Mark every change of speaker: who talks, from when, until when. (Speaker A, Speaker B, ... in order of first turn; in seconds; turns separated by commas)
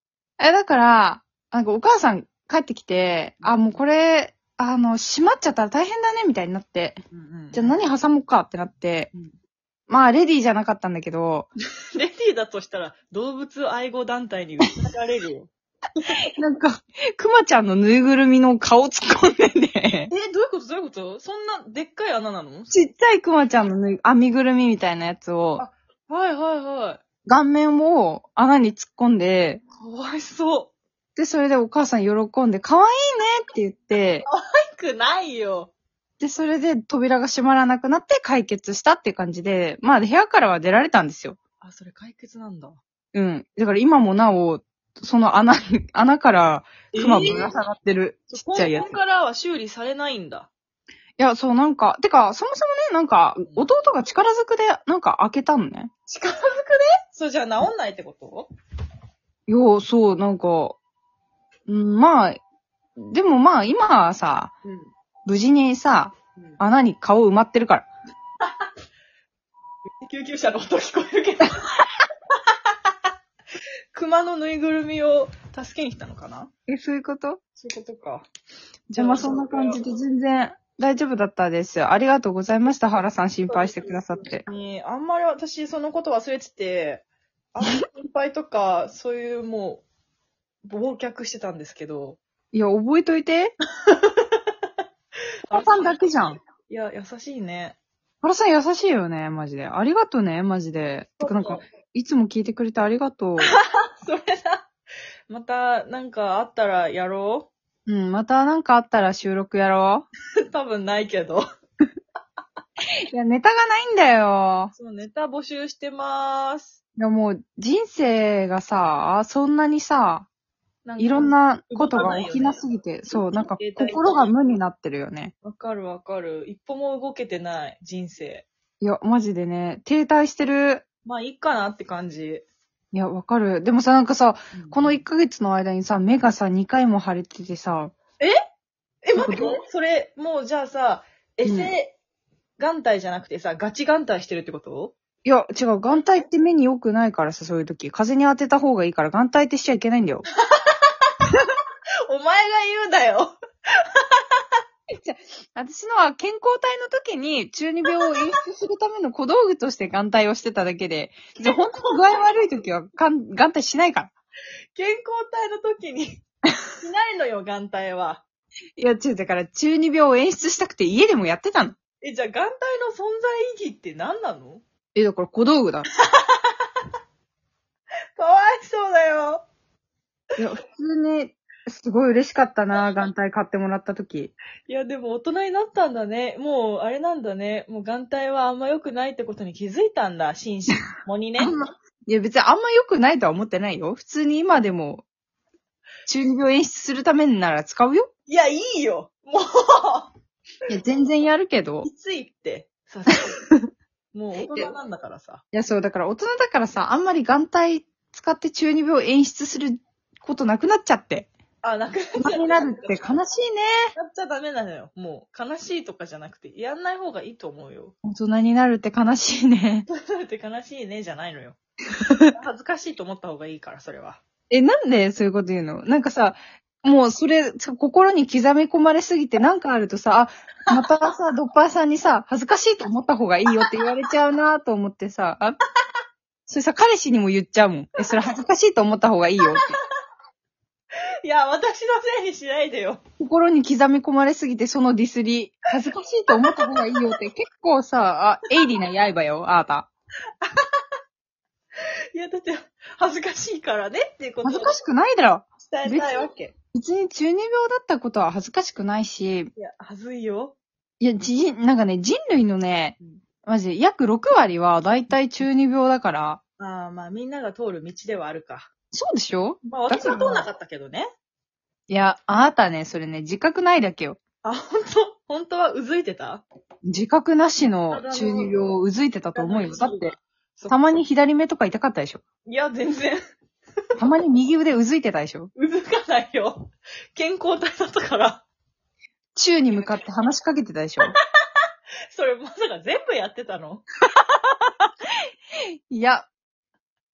Speaker A: 0.4-7.0, Speaker B: 3.4-3.8, Speaker B: 7.1-7.9, Speaker A: 7.5-9.1, Speaker A: 9.9-11.5, Speaker B: 11.9-15.5, Speaker A: 16.4-20.1, Speaker B: 20.1-22.7, Speaker A: 22.7-25.6, Speaker B: 25.6-27.0, Speaker A: 27.2-29.6, Speaker B: 29.8-30.7, Speaker A: 31.1-34.2, Speaker B: 34.2-35.7, Speaker A: 36.2-41.4, Speaker B: 41.6-42.8, Speaker A: 43.1-48.9, Speaker B: 46.9-47.5, Speaker B: 48.3-50.5, Speaker A: 51.2-55.9, Speaker B: 56.1-58.5, Speaker A: 59.5-60.8, Speaker A: 61.7-62.4, Speaker A: 63.0-64.5, Speaker A: 65.2-67.9, Speaker B: 70.0-71.6, Speaker B: 73.9-76.5, Speaker A: 76.7-77.4, Speaker B: 77.5-78.3, Speaker A: 78.9-84.4, Speaker B: 78.9-79.8, Speaker B: 83.5-89.8, Speaker B: 90.6-92.2, Speaker A: 92.5-93.5, Speaker B: 93.9-94.4, Speaker B: 95.5-97.8, Speaker A: 95.5-96.4, Speaker A: 98.2-103.5, Speaker B: 101.2-101.6, Speaker B: 104.0-104.7, Speaker B: 105.3-107.5, Speaker A: 107.9-110.1, Speaker B: 110.5-111.4, Speaker A: 113.1-114.7, Speaker B: 114.7-116.8, Speaker A: 117.0-120.3, Speaker B: 120.8-124.3, Speaker A: 121.0-125.3, Speaker B: 125.4-128.5, Speaker A: 128.8-130.8, Speaker B: 131.0-132.4, Speaker A: 132.9-137.9, Speaker B: 134.5-135.0, Speaker B: 139.0-141.9, Speaker A: 139.2-139.6, Speaker A: 141.4-141.7, Speaker B: 142.6-144.9, Speaker A: 145.2-150.2, Speaker B: 150.5-150.8, Speaker B: 152.1-154.2, Speaker A: 154.9-164.1, Speaker B: 161.4-162.0, Speaker B: 164.7-166.2, Speaker B: 166.8-168.2, Speaker A: 168.8-171.8, Speaker B: 172.0-174.6, Speaker A: 174.9-175.9, Speaker B: 176.0-176.5, Speaker B: 178.2-179.4, Speaker A: 180.4-184.3, Speaker B: 184.7-191.5, Speaker A: 191.4-195.0, Speaker A: 196.1-198.1, Speaker B: 198.3-200.1, Speaker A: 200.7-201.9, Speaker B: 201.8-203.3, Speaker B: 204.1-205.4, Speaker A: 205.5-211.3, Speaker B: 211.6-213.1, Speaker A: 212.2-213.9, Speaker B: 213.9-217.9, Speaker A: 218.0-219.9, Speaker B: 219.9-221.6, Speaker B: 222.3-224.2, Speaker A: 224.5-235.6, Speaker A: 236.5-239.7, Speaker B: 241.2-243.0, Speaker A: 243.2-249.9, Speaker B: 246.4-247.1, Speaker B: 252.1-254.7, Speaker A: 254.4-256.1, Speaker B: 255.6-256.5, Speaker A: 256.7-259.5, Speaker B: 259.6-260.6, Speaker A: 261.0-266.4, Speaker B: 266.6-268.7, Speaker A: 268.9-270.5, Speaker B: 269.6-271.1, Speaker A: 271.9-274.2, Speaker B: 274.4-276.4, Speaker A: 276.9-280.1, Speaker B: 277.9-278.5, Speaker B: 279.3-280.8, Speaker A: 280.7-282.2, Speaker B: 282.4-283.2, Speaker A: 284.0-285.5, Speaker B: 285.5-288.4, Speaker A: 289.4-291.1, Speaker B: 289.7-290.0, Speaker B: 292.1-294.7, Speaker A: 295.9-296.3